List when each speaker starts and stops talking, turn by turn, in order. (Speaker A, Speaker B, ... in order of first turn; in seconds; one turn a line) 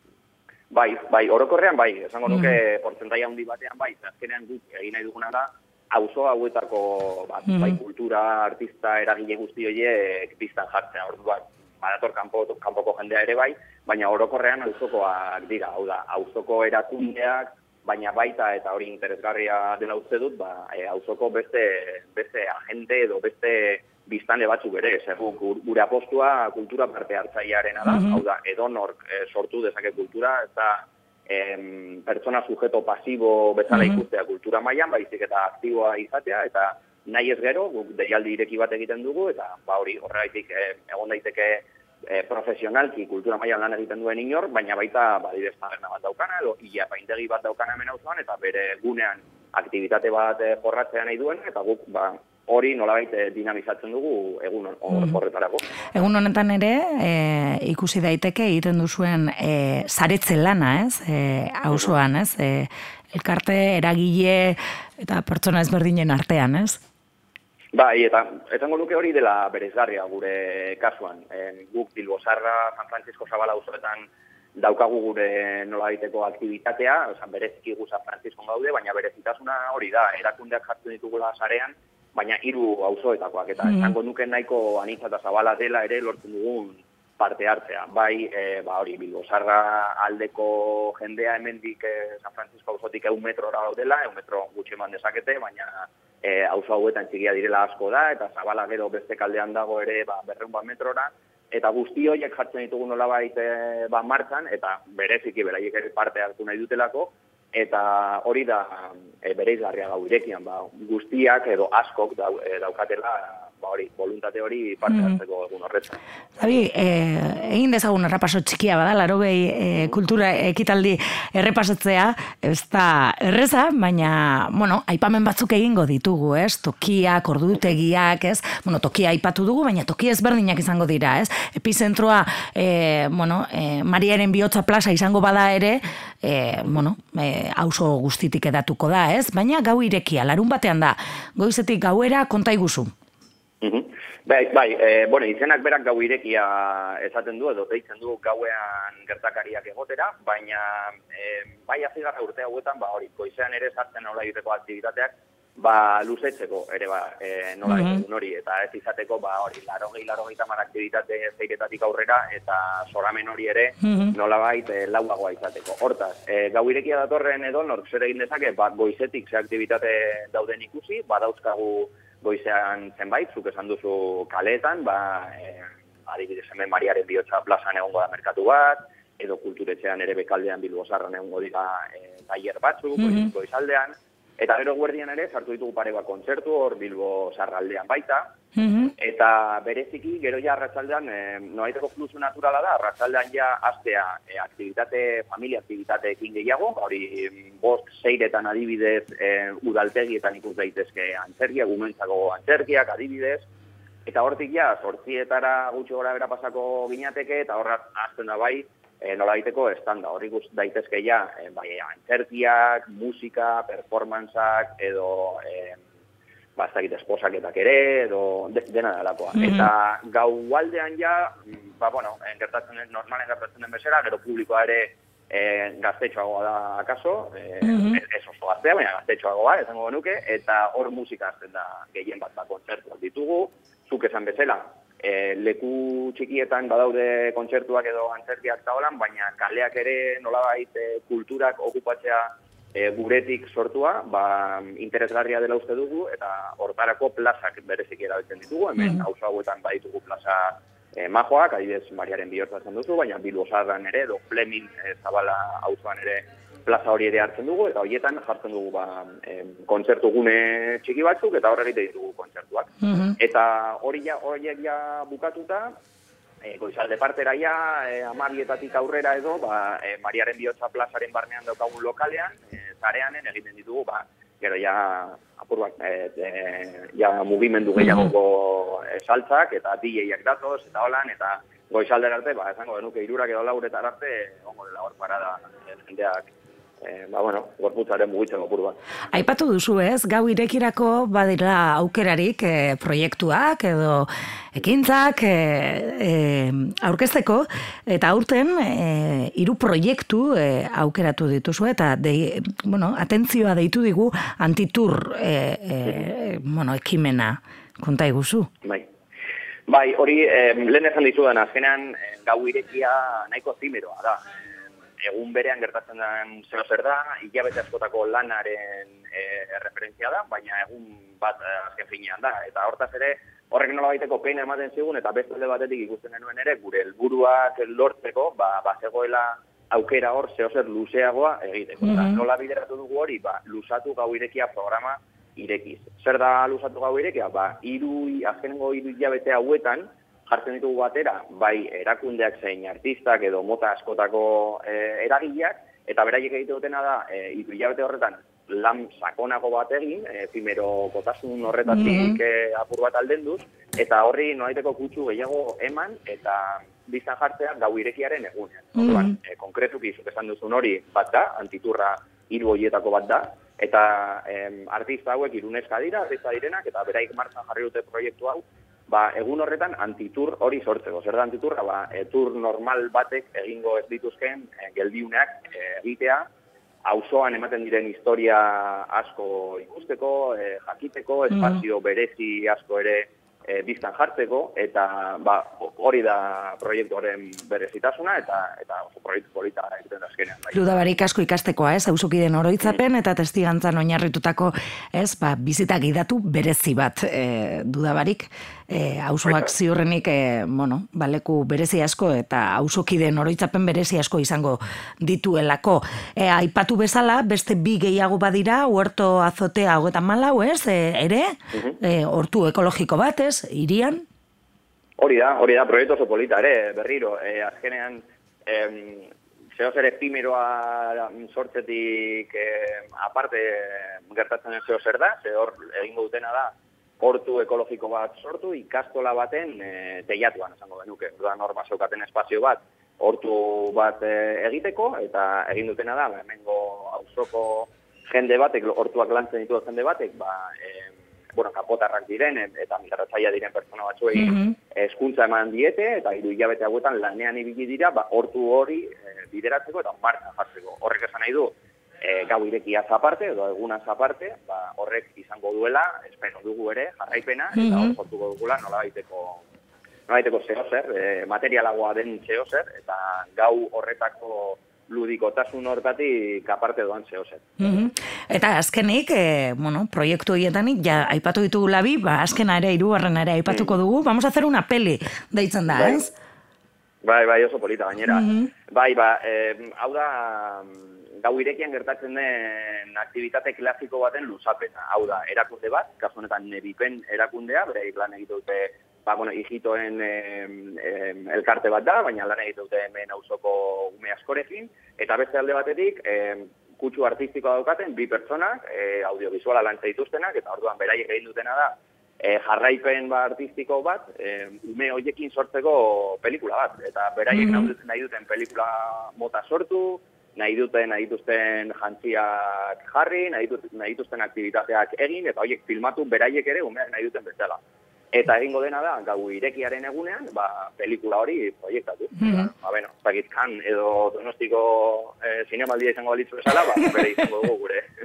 Speaker A: 0.7-55.6
Speaker B: 7.5-7.8
Speaker B: 27.9-28.2
Speaker B: 33.7-34.0
Speaker B: 55.9-66.8
Speaker A: 67.7-116.0
Speaker B: 114.9-115.2
Speaker B: 116.4-142.9
Speaker A: 143.6-188.3
Speaker B: 157.7-158.0
Speaker B: 163.8-164.1
Speaker B: 183.0-183.3
Speaker B: 188.6-188.9
Speaker A: 189.0-203.5
Speaker A: 204.1-215.8
Speaker A: 216.6-265.7
Speaker B: 219.4-219.7
Speaker B: 227.7-228.0
Speaker B: 262.8-263.1
Speaker A: 266.4-286.2
Speaker B: 277.8-278.1
Speaker A: 286.8-288.8
Speaker B: 289.1-308.5
Speaker A: 309.7-314.2
Speaker A: 315.0-376.3
Speaker B: 331.8-332.2
Speaker B: 351.7-352.2
Speaker B: 358.8-359.1
Speaker A: 376.9-390.7
Speaker B: 390.5-414.0
Speaker A: 411.5-411.8
Speaker A: 415.0-459.4
Speaker B: 444.2-444.6
Speaker B: 457.6-457.9
Speaker A: 460.1-467.5
Speaker B: 467.6-476.1
Speaker A: 473.5-473.7
Speaker A: 475.7-476.1
Speaker A: 477.0-517.6
Speaker B: 478.1-478.5
Speaker B: 507.4-507.7
Speaker A: 518.1-527.9
Speaker B: 522.2-522.5